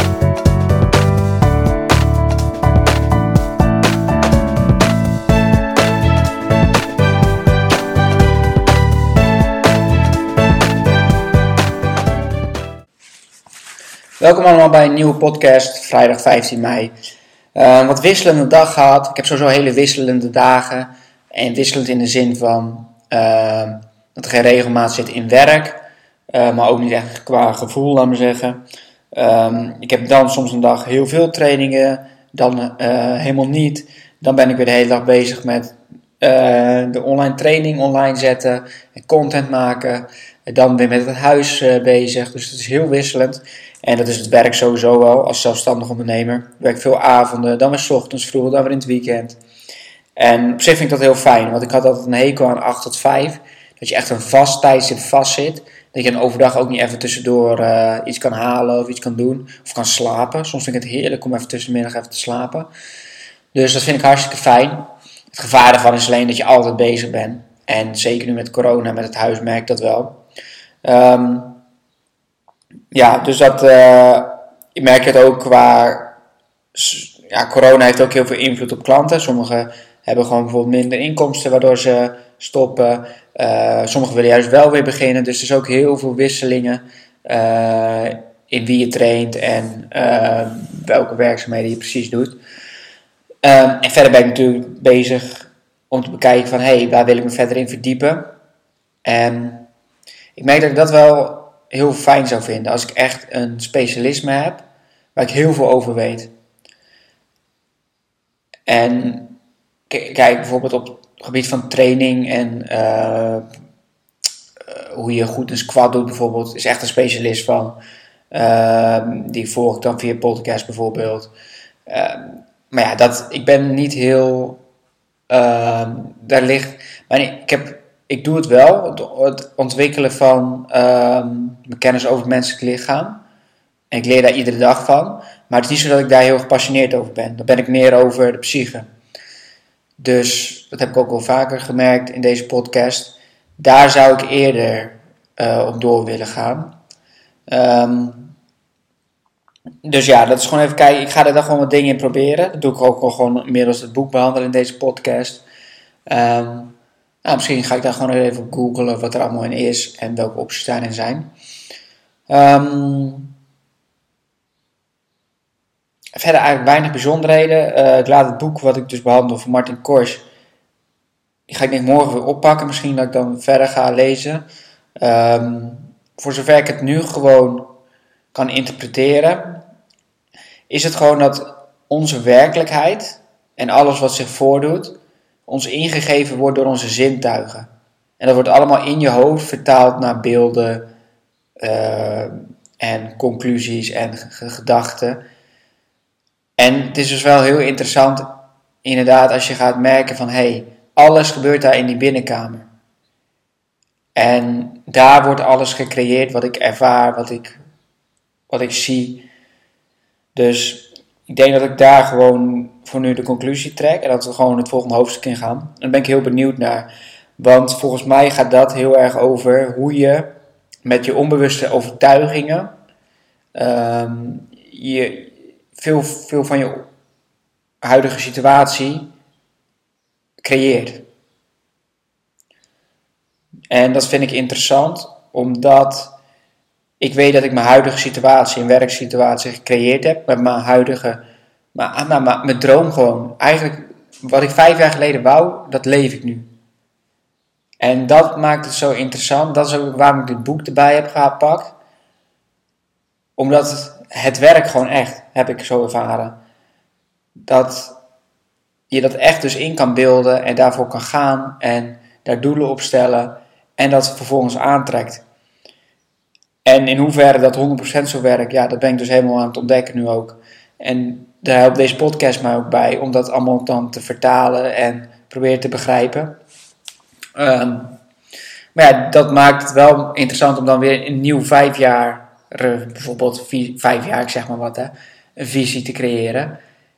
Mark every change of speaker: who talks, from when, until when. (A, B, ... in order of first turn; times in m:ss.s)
0:14.2-0:16.9 A
0:17.6-0:28.6 A
0:29.1-0:49.4 A
0:50.2-1:02.7 A
1:03.5-1:10.2 A
1:10.8-1:11.6 A
1:12.9-1:16.2 A
1:16.7-1:32.4 A
1:33.4-1:38.3 A
1:39.0-1:39.7 A
1:40.4-1:44.6 A
1:45.2-1:46.3 A
1:48.7-1:49.4 A
1:49.9-1:53.5 A
1:54.7-1:57.8 A
1:58.3-2:01.3 A
2:01.9-2:04.6 A
2:05.3-2:13.2 A
2:13.9-2:18.9 A
2:20.0-2:26.7 A
2:27.5-2:28.3 A
2:29.8-2:35.4 A
2:36.1-2:41.3 A
2:42.3-2:43.3 A
2:46.2-2:50.2 A
2:51.5-2:54.4 A
2:55.0-2:57.7 A
2:58.3-2:59.6 A
3:00.7-3:10.9 A
3:11.6-3:15.2 A
3:16.6-3:22.7 A
3:24.2-3:27.6 A
3:28.5-3:29.2 A
3:30.3-3:40.3 A
3:40.8-3:42.7 A
3:43.5-3:46.9 A
3:47.8-3:49.1 A
3:50.4-3:51.0 A
3:53.7-3:56.1 A
3:57.0-4:01.2 A
4:01.7-4:06.5 A
4:07.8-4:11.7 A
4:13.4-4:16.4 A
4:17.5-4:18.0 A
4:18.9-4:25.2 A
4:26.6-4:36.4 A
4:37.4-4:38.0 A
4:38.8-4:46.6 A